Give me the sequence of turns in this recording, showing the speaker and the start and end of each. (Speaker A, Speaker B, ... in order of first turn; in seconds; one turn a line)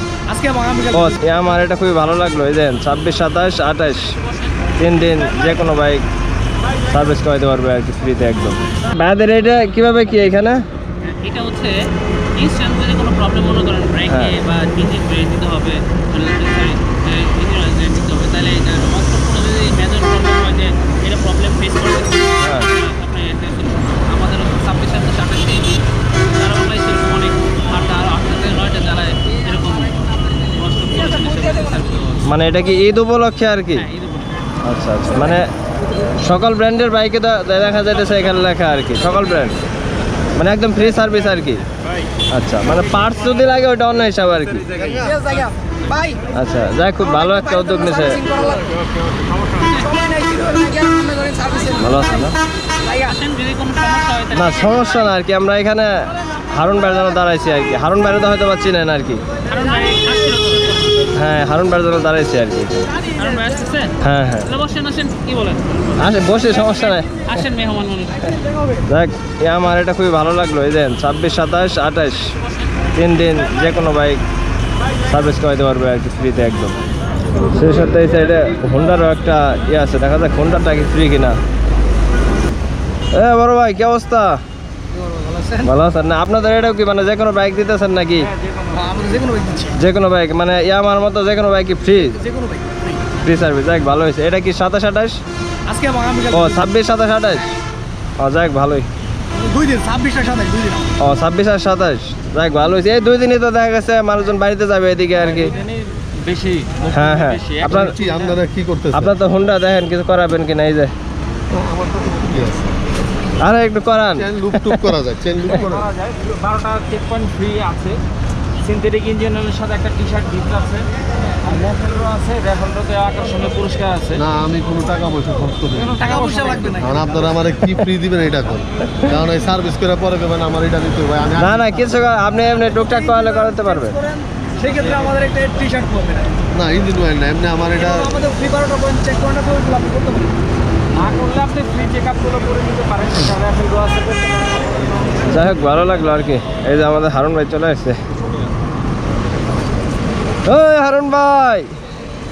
Speaker A: 0.3-1.2
Speaker B: 0.9-4.1
Speaker C: 4.2-4.6
Speaker B: 4.8-6.0
Speaker B: 6.8-10.6
Speaker C: 11.0-11.8
Speaker C: 12.3-32.2
Speaker B: 14.1-14.3
Speaker B: 22.4-22.7
Speaker B: 32.3-33.9
Speaker C: 33.8-34.5
Speaker B: 34.6-35.5
Speaker B: 36.1-39.6
Speaker B: 40.4-41.6
Speaker B: 42.3-44.9
Speaker A: 44.9-46.2
Speaker B: 46.3-48.2
Speaker A: 47.0-48.8
Speaker A: 49.7-52.1
Speaker B: 51.8-52.4
Speaker C: 52.9-55.1
Speaker B: 54.3-59.2
Speaker C: 59.5-61.0
Speaker B: 61.1-62.8
Speaker C: 63.1-68.4
Speaker B: 64.0-64.5
Speaker B: 66.0-67.1
Speaker B: 68.9-72.3
Speaker C: 72.4-72.7
Speaker B: 73.0-74.2
Speaker B: 75.0-76.8
Speaker B: 77.5-81.4
Speaker B: 83.1-84.4
Speaker A: 84.9-85.7
Speaker B: 85.6-88.3
Speaker D: 88.3-88.6
Speaker A: 88.7-89.8
Speaker B: 89.8-92.2
Speaker A: 92.0-93.0
Speaker B: 93.2-95.2
Speaker A: 95.7-96.7
Speaker B: 96.3-97.5
Speaker B: 98.2-98.9
Speaker A: 99.3-100.9
Speaker B: 101.0-105.5
Speaker D: 105.3-108.0
Speaker B: 106.9-107.9
Speaker E: 107.7-109.2
Speaker B: 108.9-110.9
Speaker E: 111.5-112.7
Speaker B: 113.4-114.8
Speaker E: 114.2-115.9
Speaker D: 115.7-118.0
Speaker D: 118.6-120.9
Speaker D: 121.4-124.2
Speaker E: 124.2-126.1
Speaker D: 125.8-126.8
Speaker A: 125.9-127.1
Speaker E: 126.8-132.1
Speaker B: 131.4-134.0
Speaker A: 132.9-136.3
Speaker E: 136.5-138.1
Speaker A: 137.8-140.3
Speaker D: 141.0-145.2
Speaker B: 145.3-148.0
Speaker B: 150.5-151.7